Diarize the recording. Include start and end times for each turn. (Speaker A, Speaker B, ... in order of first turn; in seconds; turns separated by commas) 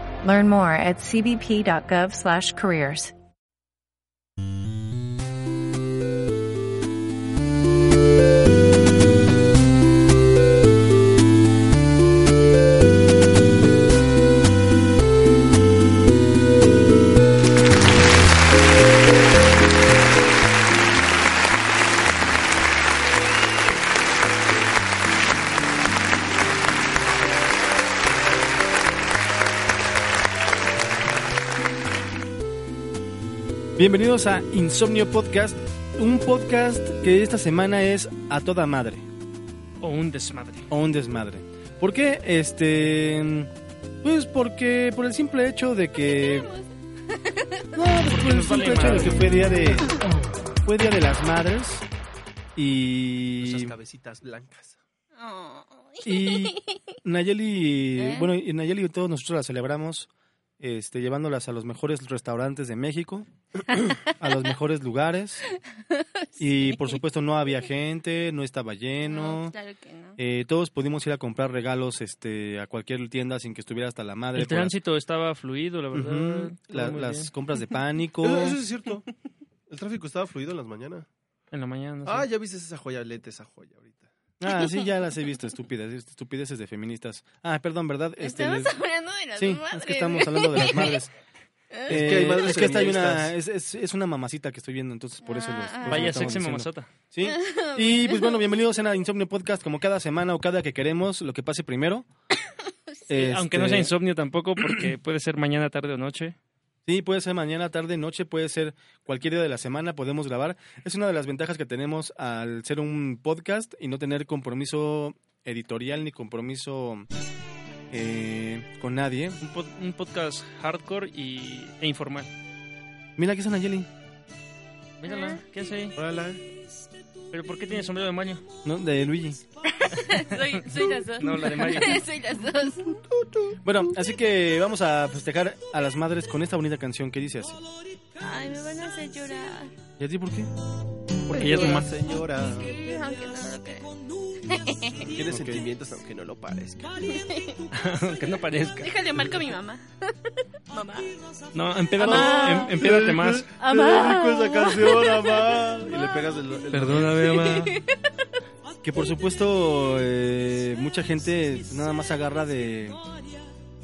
Speaker A: 0.2-3.1, Speaker B: 33.8-39.0, Speaker C: 39.8-40.7, Speaker B: 40.7-43.5, Speaker B: 44.0-46.5, Speaker D: 46.1-47.7, Speaker B: 47.8-50.0, Speaker C: 48.1-49.2, Speaker B: 50.6-51.8, Speaker B: 52.5-53.7, Speaker E: 53.4-54.8, Speaker D: 55.1-56.8, Speaker B: 56.0-63.3, Speaker D: 58.0-58.3, Speaker B: 64.2-65.4, Speaker D: 65.5-67.0, Speaker B: 66.4-69.5, Speaker D: 69.0-70.2, Speaker B: 70.2-74.7, Speaker C: 74.3-77.3, Speaker B: 75.9-78.6, Speaker E: 78.2-79.0, Speaker E: 79.7-81.0, Speaker C: 81.5-82.3, Speaker E: 82.0-84.1, Speaker B: 84.4-88.7, Speaker D: 88.2-91.0, Speaker B: 89.3-91.1, Speaker D: 91.7-92.5, Speaker E: 91.9-93.3, Speaker B: 91.9-102.0, Speaker D: 95.2-96.4, Speaker C: 95.8-96.9, Speaker D: 97.2-98.4, Speaker B: 103.1-103.9, Speaker C: 103.1-106.3, Speaker B: 106.8-117.1, Speaker B: 117.9-119.4, Speaker C: 119.4-122.3, Speaker B: 123.2-123.9, Speaker C: 125.0-125.9, Speaker D: 125.0-125.4, Speaker E: 125.9-126.4, Speaker C: 127.3-128.4, Speaker B: 128.6-129.4, Speaker D: 129.7-133.0, Speaker C: 130.1-132.0, Speaker E: 133.2-133.5, Speaker B: 133.6-137.6, Speaker D: 138.2-139.7, Speaker B: 140.0-140.5, Speaker E: 141.3-142.8, Speaker C: 141.3-141.9, Speaker D: 142.4-143.9, Speaker D: 144.4-145.1, Speaker B: 145.0-145.6, Speaker E: 145.1-146.9, Speaker D: 147.0-147.6, Speaker C: 147.7-148.9, Speaker D: 148.8-151.2, Speaker C: 151.5-153.5, Speaker D: 152.0-152.8, Speaker B: 152.0-152.7, Speaker E: 152.7-157.5, Speaker D: 153.6-156.2, Speaker C: 156.7-157.7, Speaker D: 157.3-158.0, Speaker B: 158.8-163.0